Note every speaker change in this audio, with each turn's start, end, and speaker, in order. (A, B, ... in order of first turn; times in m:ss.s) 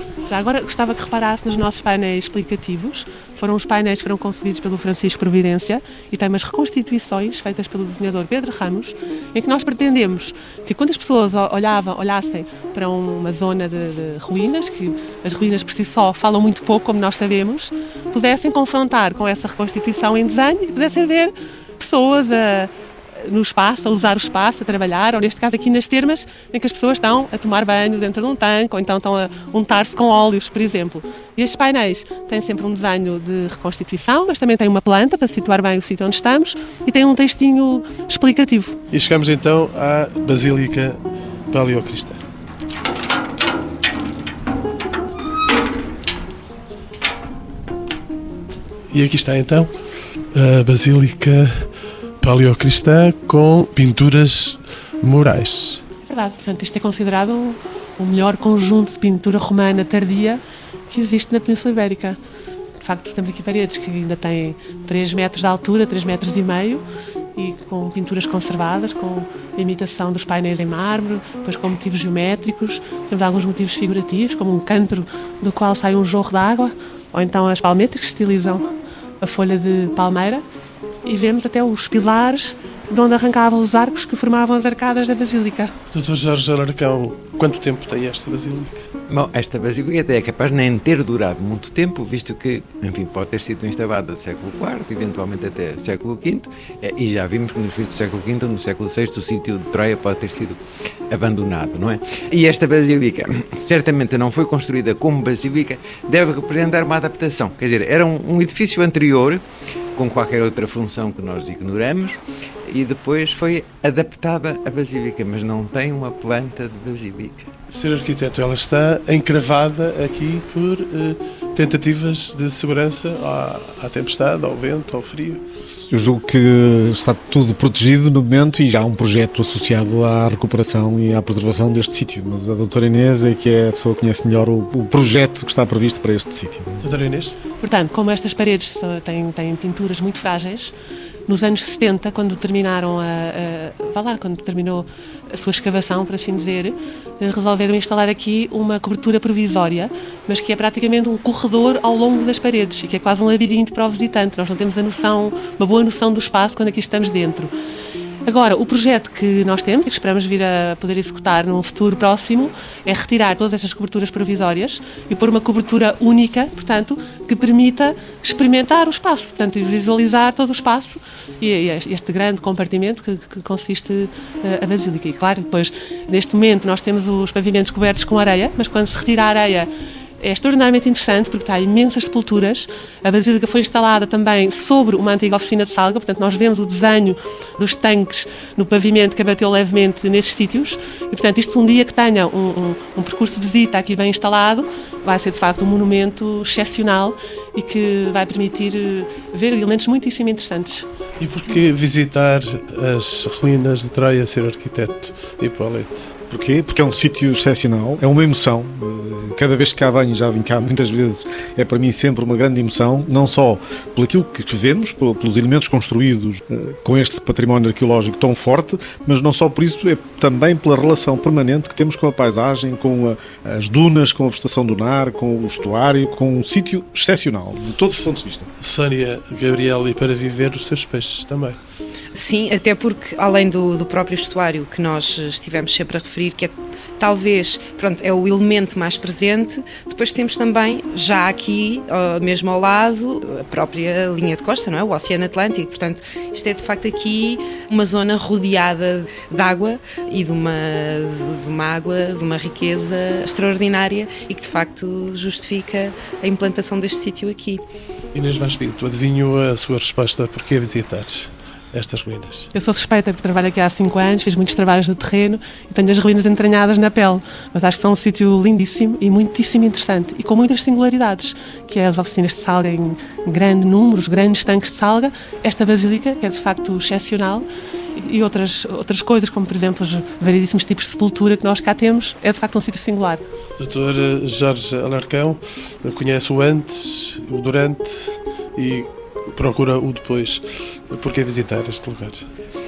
0:00.2-0:38.8 A
0:38.9-0:41.0 B
0:41.5-0:42.2 B
0:48.9-0:49.7 B
0:50.3-0:51.7 B
0:52.2-0:55.8 B
0:56.0-1:02.2 A
1:02.8-1:06.8 A
1:07.4-1:18.6 A
1:19.2-1:20.4 A
1:21.0-1:25.7 A
1:25.9-1:28.8 B
1:29.1-1:49.4 C
1:49.9-1:57.5 C
1:57.7-2:05.4 B
2:05.7-2:16.9 D
2:16.8-2:17.3 B
2:17.6-2:20.7 A
2:21.3-2:37.5 A
2:38.2-2:59.7 A
3:00.2-3:20.8 A
3:21.2-3:26.1 B
3:26.3-3:48.5 D
3:48.6-3:51.6 B
3:52.1-4:17.6 E
4:18.1-4:22.5 B
4:22.5-4:43.2 A
4:43.6-4:52.2 B